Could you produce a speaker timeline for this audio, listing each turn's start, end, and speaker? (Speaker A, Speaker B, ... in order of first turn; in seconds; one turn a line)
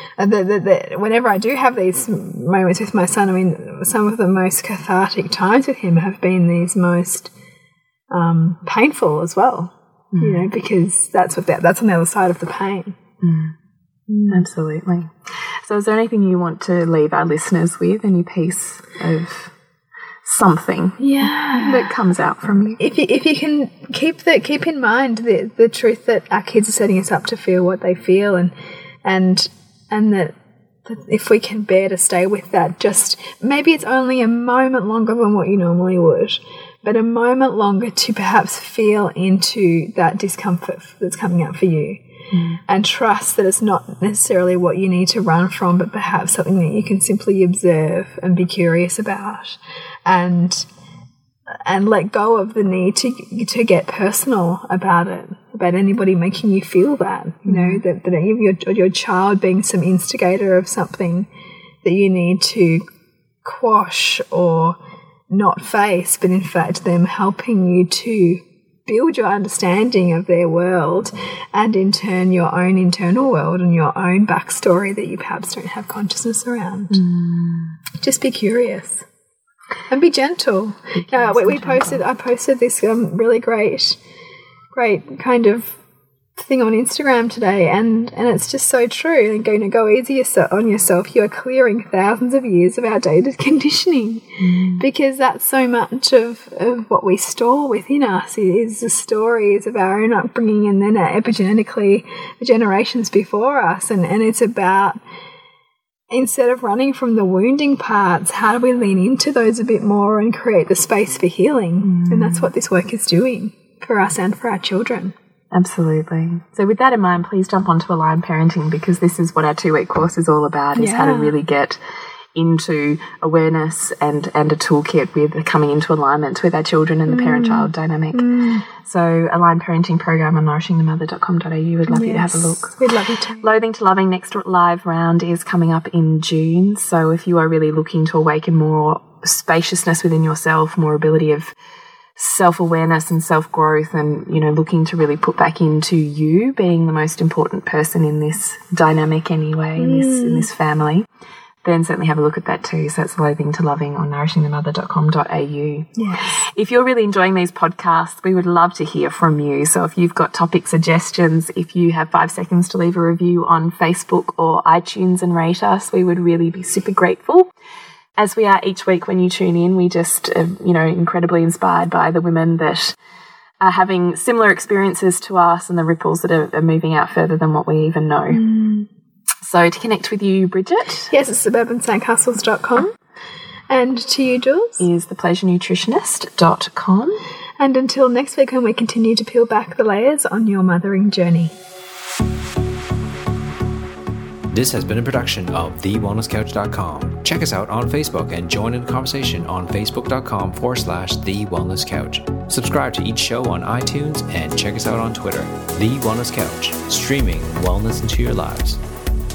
Speaker A: 0.2-7.3
Speaker A: 8.1-13.0
Speaker B: 10.1-10.4
Speaker B: 13.2-13.5
Speaker A: 14.1-14.4
Speaker B: 14.3-19.5
Speaker B: 20.2-22.8
Speaker A: 21.0-21.9
Speaker A: 22.8-28.5
Speaker A: 29.0-42.0
Speaker A: 42.6-50.7
Speaker A: 51.6-61.3
Speaker B: 57.5-57.8
Speaker A: 61.8-62.9
Speaker A: 63.4-64.8
Speaker A: 65.3-77.0
Speaker B: 76.9-77.8
Speaker A: 78.0-79.0
Speaker A: 79.9-84.0
Speaker B: 81.0-82.0
Speaker A: 84.7-85.8
Speaker A: 86.4-105.0
Speaker B: 94.4-94.8
Speaker A: 106.1-115.1
Speaker B: 111.8-112.5
Speaker B: 115.5-121.8
Speaker A: 120.8-121.3
Speaker B: 122.3-132.8
Speaker A: 127.1-128.6
Speaker A: 131.9-133.4
Speaker B: 133.4-141.5
Speaker B: 142.2-151.0
Speaker A: 149.8-150.5
Speaker B: 151.6-167.5
Speaker A: 155.9-156.4
Speaker B: 168.2-172.9
Speaker B: 173.6-178.4
Speaker A: 178.3-178.9
Speaker B: 179.4-181.1
Speaker A: 181.1-182.9
Speaker A: 183.7-184.8
Speaker B: 184.8-187.2
Speaker A: 187.6-191.5
Speaker C: 194.5-208.8